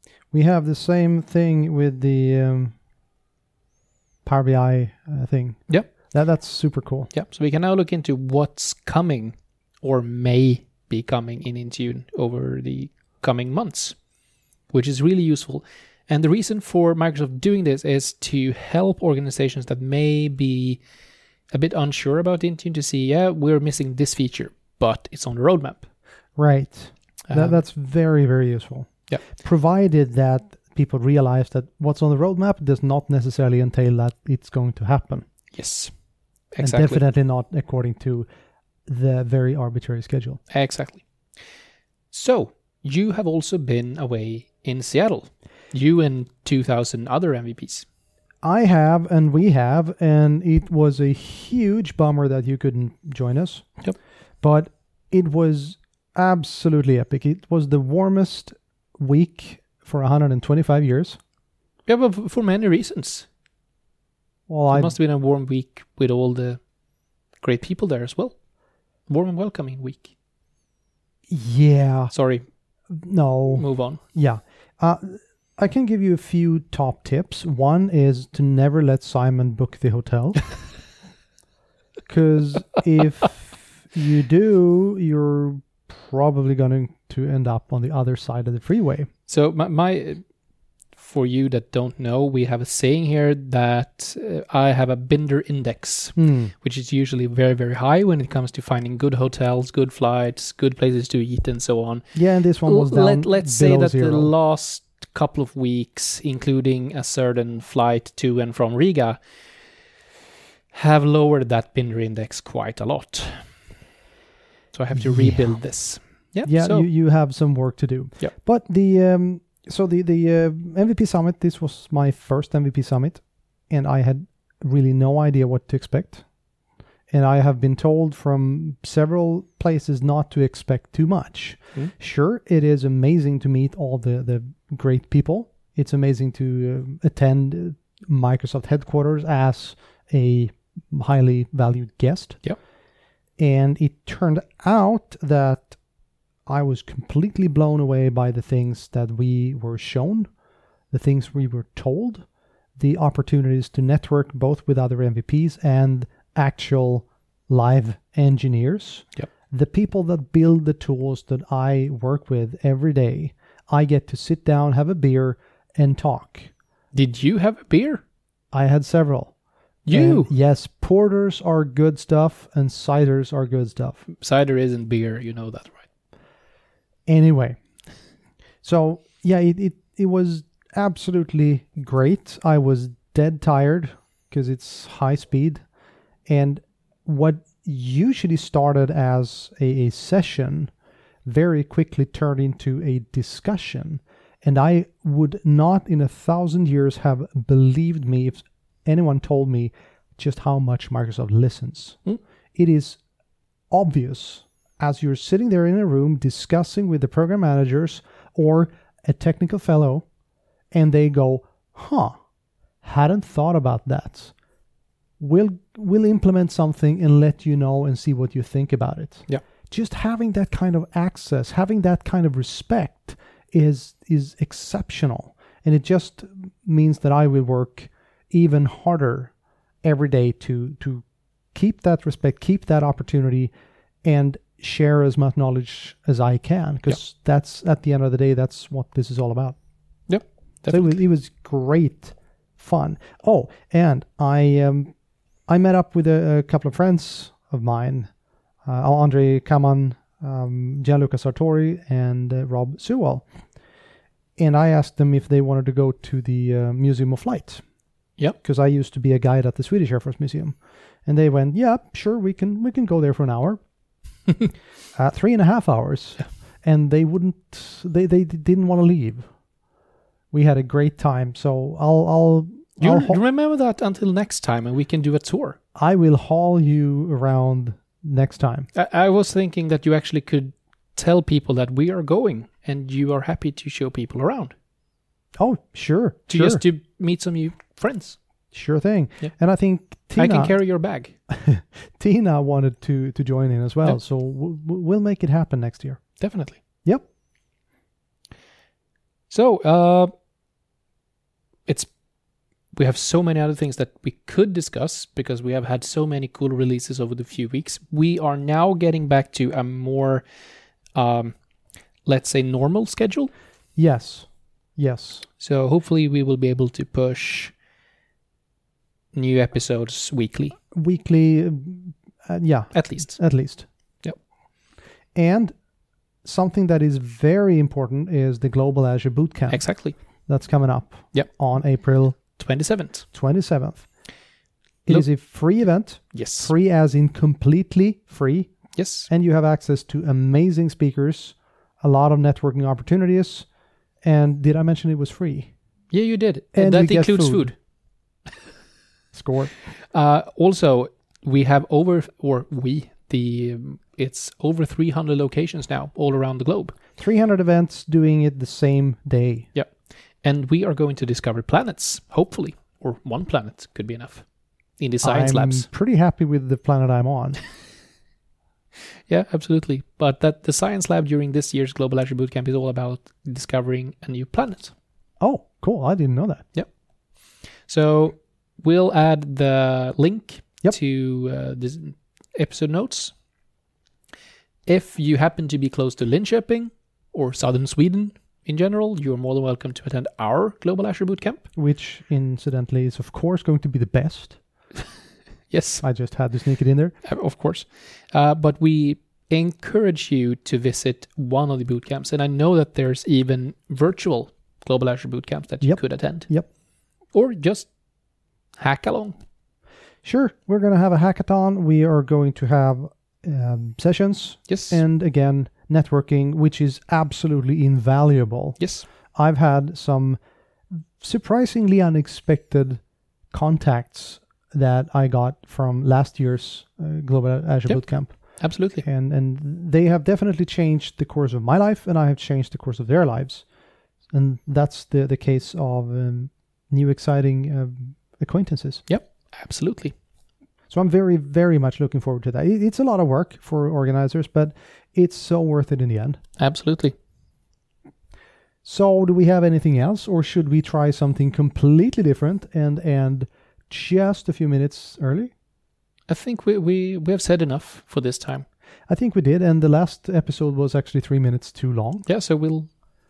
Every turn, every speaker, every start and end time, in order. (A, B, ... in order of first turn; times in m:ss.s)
0:00.3-0:02.7 A
0:04.2-0:07.1 A
0:07.1-0:14.0 B
0:14.7-0:20.8 B
0:21.5-0:25.8 B
0:26.4-0:35.2 A
0:27.3-0:27.5 B
0:35.5-0:35.9 B
0:36.5-0:37.0 B
0:36.6-0:38.3 A
0:38.8-0:40.4 A
0:40.5-0:41.0 B
0:42.1-0:47.8 B
0:48.4-0:53.6 A
0:54.4-1:01.2 A
1:01.8-1:03.3 B
1:04.5-1:04.9 A
1:04.7-1:06.6 B
1:07.4-1:08.4 B
1:09.1-1:10.1 B
1:11.3-1:12.1 A
1:12.1-1:12.4 B
1:12.9-1:20.4 A
1:13.5-1:14.0 B
1:22.1-1:29.1 A
1:29.3-1:30.2 B
1:30.9-1:42.0 B
1:36.2-1:36.5 A
1:42.1-1:44.3 A
1:42.6-1:49.2 B
1:50.7-1:53.4 B
1:54.7-1:56.8 B
1:54.9-1:55.4 A
1:56.4-2:06.2 A
2:07.1-2:22.4 A
2:23.4-2:25.8 A
2:26.5-2:30.3 A
2:30.9-2:32.2 A
2:32.8-2:46.5 A
2:46.9-2:48.0 B
2:48.5-2:49.3 A
2:49.8-2:50.3 B
2:49.9-2:54.0 A
2:54.1-2:55.8 B
2:57.1-2:57.6 A
2:58.6-3:05.6 A
3:06.3-3:10.7 A
3:11.2-3:22.0 A
3:22.5-3:23.0 A
3:23.7-3:30.0 A
3:30.7-3:32.2 A
3:32.8-3:34.3 A
3:35.2-3:49.3 A
3:49.8-3:53.5 A
3:54.0-3:59.6 A
4:00.1-4:00.8 B
4:00.7-4:04.9 A
4:05.5-4:08.1 A
4:08.6-4:13.2 A
4:14.4-4:17.6 A
4:18.4-4:23.6 A
4:24.9-4:29.3 A
4:30.3-4:33.2 A
4:32.8-4:35.6 B
4:35.7-4:38.7 A
4:38.7-4:44.5 B
4:45.4-4:46.6 A
4:46.3-4:48.2 B
4:48.5-4:50.5 A
4:50.1-4:51.2 B
4:51.3-4:56.0 A
4:56.2-4:56.6 B
4:59.3-5:00.1 B
5:02.7-5:10.2 B
5:10.9-5:11.4 B
5:12.0-5:13.3 B
5:13.8-5:15.2 A
5:15.4-5:17.5 B
5:19.1-5:20.6 B
5:20.7-5:23.6 A
5:22.7-5:23.2 B
5:25.1-5:25.5 A
5:26.2-5:29.6 A
5:29.5-5:29.9 B
5:30.3-5:32.2 A
5:32.4-5:33.0 B
5:33.1-5:33.9 A
5:34.8-5:38.5 A
5:36.1-5:36.5 B
5:38.8-5:39.1 B
5:39.1-5:43.5 A
5:44.0-5:45.5 A
5:45.9-5:47.5 B
5:46.5-5:47.5 A
5:49.1-5:49.5 A
5:49.9-5:56.8 B
5:57.0-5:59.5 A
5:59.5-6:04.2 B
6:04.8-6:05.7 B
6:05.0-6:07.4 A
6:09.1-6:14.7 B
6:15.2-6:16.4 A
6:17.7-6:23.1 B
6:24.7-6:31.4 B
6:31.5-6:34.4 A
6:35.5-6:35.8 B
6:35.8-6:36.9 A
6:37.0-6:46.3 B
6:45.6-6:46.5 A
6:47.1-6:47.7 B
6:48.6-6:49.2 B
6:50.0-6:58.6 A
6:54.5-6:54.8 B
6:58.6-6:58.8 B
6:59.1-7:00.2 A
7:01.0-7:02.8 A
7:03.3-7:08.1 A
7:08.4-7:08.8 B
7:08.7-7:13.4 A
7:14.1-7:18.8 A
7:18.9-7:19.9 B
7:20.7-7:26.2 A
7:26.4-7:26.9 B
7:28.6-7:35.3 A
7:36.1-7:38.4 B
7:38.9-7:42.0 A
7:42.0-7:42.7 B